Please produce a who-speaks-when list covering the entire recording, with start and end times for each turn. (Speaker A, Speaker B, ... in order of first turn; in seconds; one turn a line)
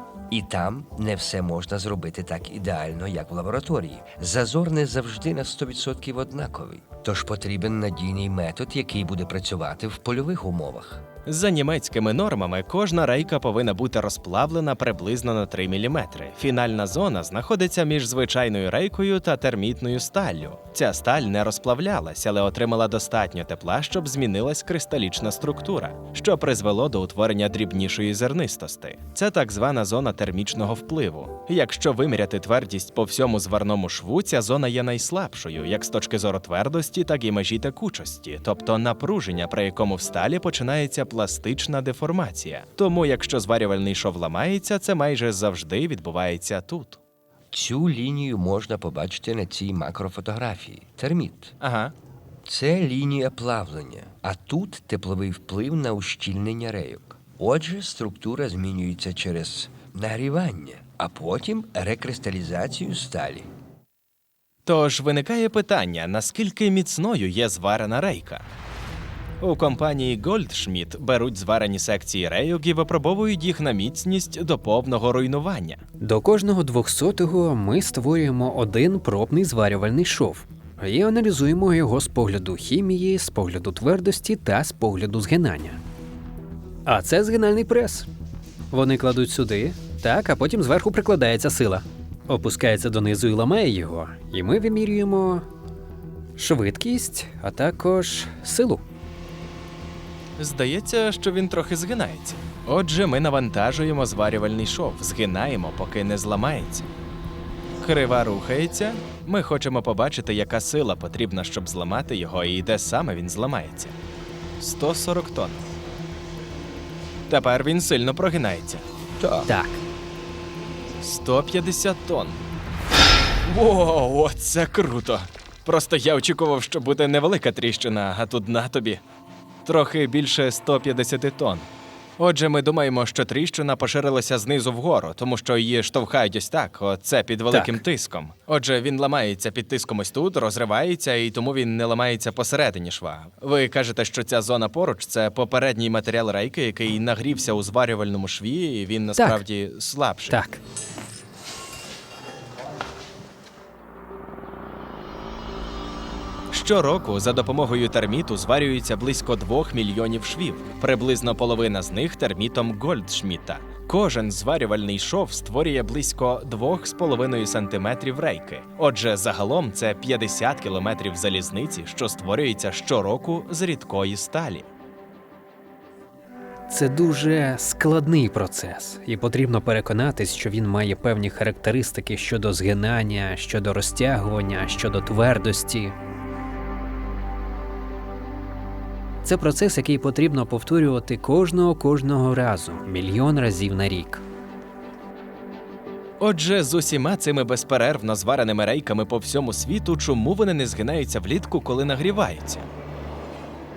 Speaker A: 0.3-11.0
Speaker B: 11.2-47.0
Speaker A: 47.5-51.5
Speaker B: 51.6-51.9
Speaker A: 52.4-63.5
Speaker B: 64.7-68.4
Speaker B: 69.4-75.8
Speaker C: 76.0-85.8
Speaker C: 86.8-88.1
Speaker C: 88.7-95.5
Speaker C: 96.4-98.8
Speaker B: 100.4-106.9
Speaker B: 107.8-114.0
Speaker B: 114.6-115.6
Speaker B: 117.3-118.8
Speaker A: 119.2-119.5
Speaker C: 119.5-119.8
Speaker B: 121.0-122.4
Speaker B: 123.4-129.0
Speaker B: 129.6-131.7
Speaker B: 132.2-150.4
Speaker C: 137.5-137.8
Speaker C: 150.3-150.6
Speaker B: 156.5-174.7
Speaker C: 176.7-185.9
Speaker C: 189.2-194.2
Speaker B: 196.2-202.7